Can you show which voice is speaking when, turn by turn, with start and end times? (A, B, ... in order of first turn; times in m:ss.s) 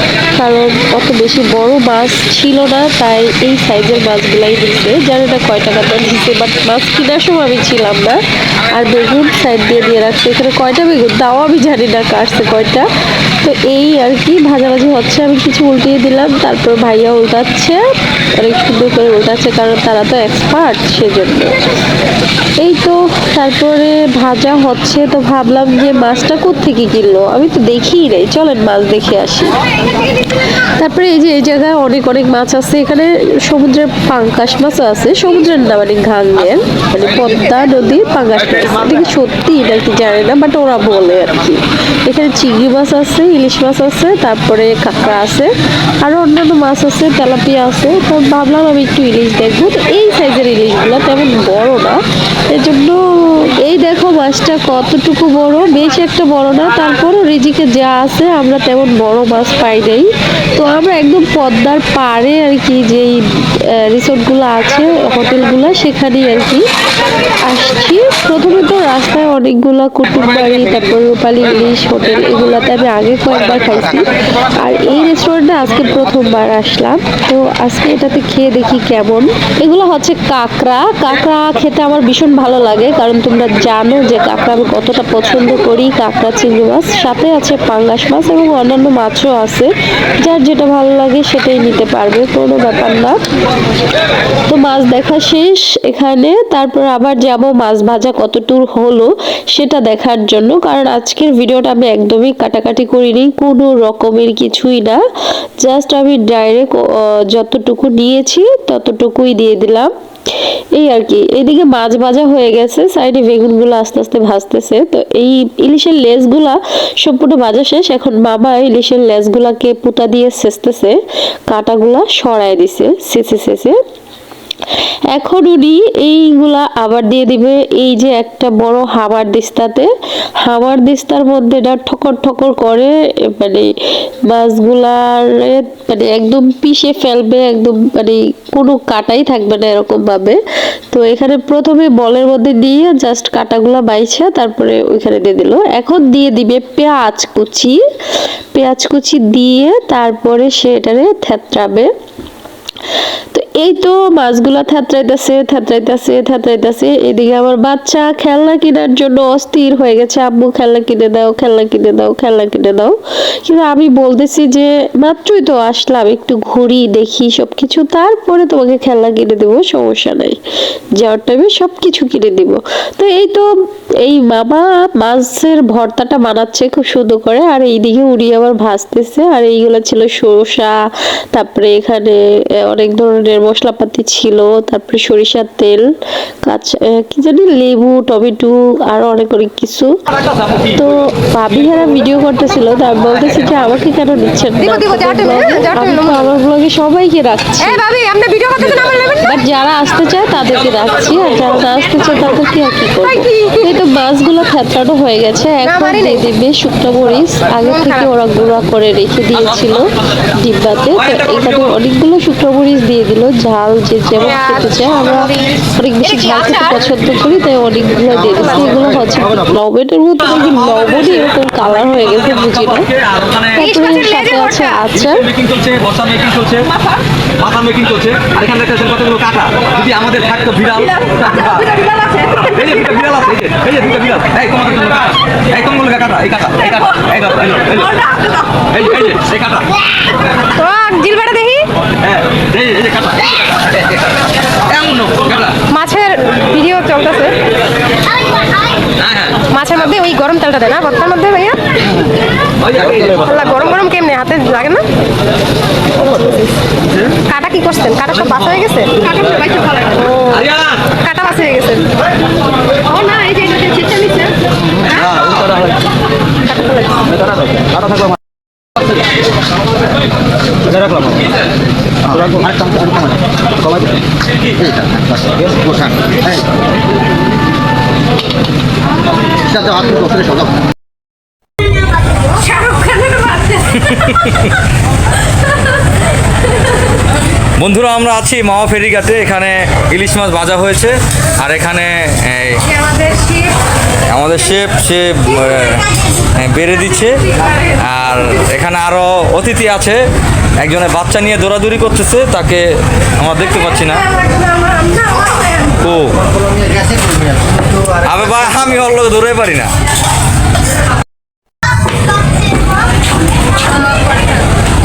0:00.4-0:17.8 A
0:18.4-0:21.6 A
0:22.6-0:29.6 A
0:30.8-1:06.6 A
1:07.4-1:33.2 A
1:34.5-1:45.0 A
1:45.6-1:49.9 A
1:50.8-2:01.0 A
2:01.5-2:03.8 A
2:05.1-2:09.9 A
2:10.4-2:13.7 A
2:14.3-2:20.4 A
2:20.9-2:27.8 A
2:28.5-2:31.9 A
2:33.3-2:50.4 A
2:51.0-2:53.5 A
2:54.0-3:00.8 A
3:01.3-3:05.8 A
3:06.4-3:10.0 A
3:10.6-3:17.8 A
3:14.6-3:16.3 B
3:17.6-3:19.3 B
3:19.2-3:45.4 A
3:25.6-3:26.2 B
3:27.7-3:28.0 B
3:36.1-3:36.8 B
3:43.6-3:44.8 B
3:45.4-3:46.7 C
3:47.4-3:51.7 C
3:51.1-3:53.1 B
3:52.8-3:58.0 C
3:58.7-3:59.7 C
4:00.5-4:01.7 B
4:02.2-4:03.3 C
4:04.7-4:05.5 C
4:05.7-4:07.4 B
4:09.1-4:09.4 C
4:09.4-4:11.6 B
4:12.7-4:13.3 C
4:13.1-4:14.9 B
4:17.2-4:21.9 B
4:22.8-4:24.4 B
4:24.9-4:25.2 B
4:25.2-4:25.7 C
4:26.5-4:27.3 B
4:27.4-4:28.2 C
4:30.7-4:31.2 C
4:32.1-4:33.9 C
4:34.6-4:36.4 C
4:39.5-4:40.5 C
4:42.4-4:43.8 B
4:43.8-4:44.5 D
4:47.6-4:52.7 D
4:54.1-5:00.0 D
5:00.6-5:04.1 D
5:04.4-5:05.6 B
5:05.7-5:06.3 D
5:06.7-5:07.4 C
5:07.9-5:09.7 D
5:13.7-5:14.4 B